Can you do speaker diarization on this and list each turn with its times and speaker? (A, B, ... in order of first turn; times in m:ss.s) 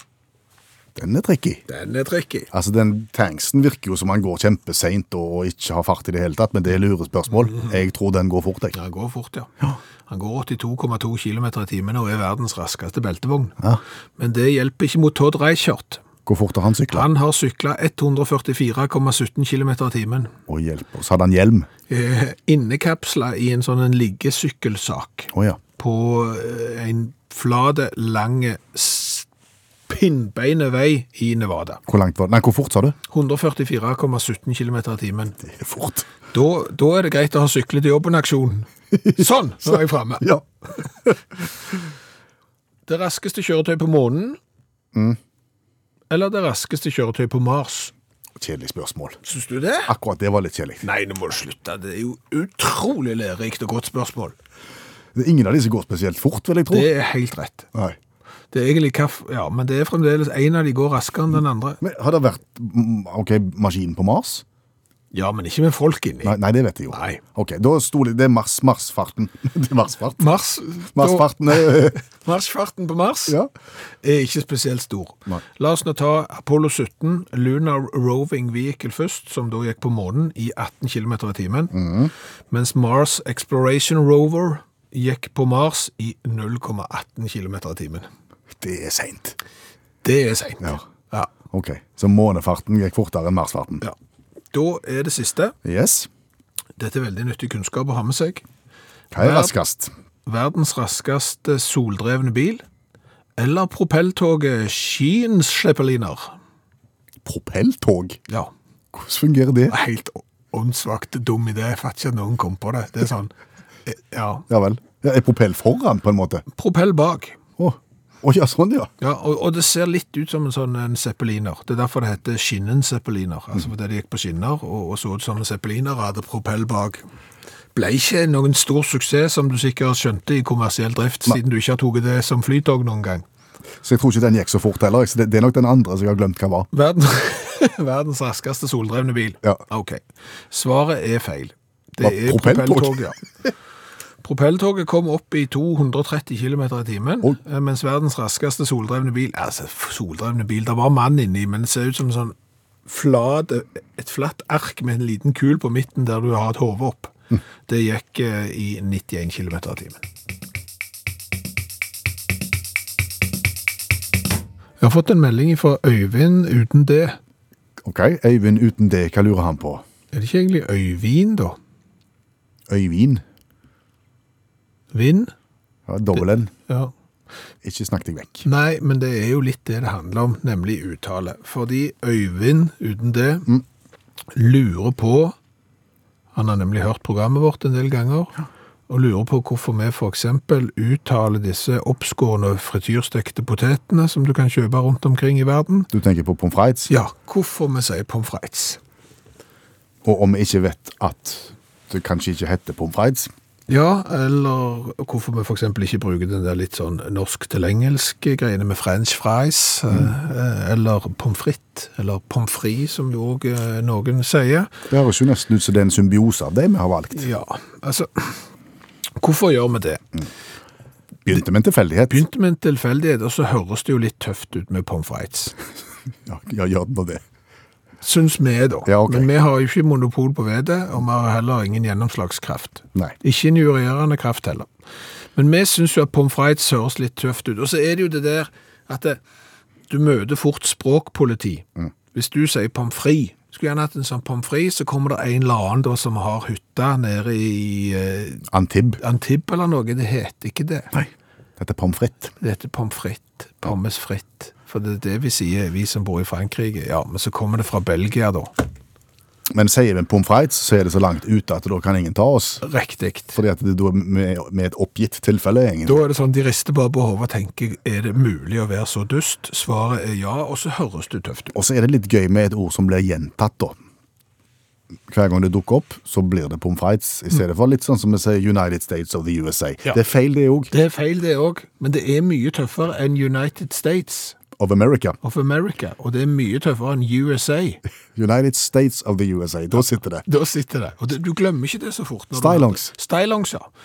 0:00.9-0:01.6 A
0:01.7-0:02.5 B
0:02.5-0:08.8 A
0:08.7-0:09.5 B
0:10.1-0:13.6 B
0:14.2-0:16.0 B
0:16.2-0:17.1 A
0:16.9-0:20.3 B
0:20.5-0:21.7 A
0:21.9-0:29.3 B
0:25.3-0:25.6 A
0:29.9-0:31.8 B
0:31.9-0:33.0 A
0:33.1-0:35.4 B
0:35.4-0:36.0 A
0:36.3-0:40.3 B
0:39.0-0:40.4 A
0:42.8-0:44.4 B
0:44.9-0:45.2 A
0:46.1-0:47.9 B
0:48.4-0:49.2 A
0:49.2-0:49.9 B
0:49.9-0:50.8 A
0:50.8-0:54.3 B
0:55.1-0:56.9 A
0:56.7-0:57.7 B
0:58.5-1:01.8 B
1:01.8-1:04.4 A
1:05.1-1:06.4 B
1:06.2-1:10.4 A
1:06.9-1:07.2 B
1:10.2-1:13.4 B
1:10.9-1:12.0 A
1:14.0-1:21.8 B
1:21.7-1:22.1 A
1:22.5-1:28.1 B
1:28.6-1:29.4 A
1:30.0-1:31.3 B
1:31.5-1:33.8 A
1:34.5-1:35.5 B
1:35.6-1:36.1 A
1:36.8-1:38.4 B
1:39.1-1:39.9 A
1:39.2-1:39.5 B
1:40.2-1:42.6 B
1:43.4-1:46.4 B
1:47.2-1:48.2 A
1:48.9-1:49.8 A
1:49.7-1:53.3 B
1:53.8-1:54.4 B
1:54.5-1:56.4 A
1:56.5-1:57.4 B
1:57.6-1:58.9 A
1:59.0-2:07.0 B
2:07.7-2:13.2 B
2:13.8-2:16.7 A
2:16.7-2:23.2 B
2:22.0-2:23.0 A
2:24.2-2:37.1 B
2:37.6-2:40.0 B
2:44.8-2:47.2 B
2:47.8-2:49.8 A
2:50.1-2:51.6 B
2:52.7-2:53.2 A
2:54.9-2:55.3 B
2:55.9-2:56.5 A
2:56.2-2:56.9 B
2:57.6-2:58.4 A
2:58.4-3:03.5 B
3:04.3-3:05.3 B
3:06.3-3:08.4 B
3:08.9-3:15.9 B
3:15.9-3:16.9 A
3:16.9-3:18.8 B
3:20.0-3:23.3 A
3:23.7-3:34.7 B
3:34.9-3:37.3 A
3:37.1-3:38.4 B
3:39.2-3:40.0 B
3:41.2-3:42.2 A
3:42.1-3:45.6 B
3:46.2-3:47.2 A
3:48.0-3:54.7 B
3:48.8-3:49.3 A
3:55.3-3:59.2 B
3:59.9-4:08.4 B
4:08.5-4:09.0 A
4:09.0-4:10.9 B
4:10.9-4:12.3 A
4:12.4-4:18.5 B
4:19.5-4:22.6 A
4:22.6-4:23.4 B
4:23.3-4:26.0 A
4:25.8-4:31.5 B
4:31.5-4:33.8 A
4:35.1-4:40.7 A
4:40.7-4:44.4 B
4:44.6-4:45.2 A
4:45.2-4:47.8 B
4:48.1-4:50.2 A
4:50.2-4:53.7 B
4:52.3-4:52.9 A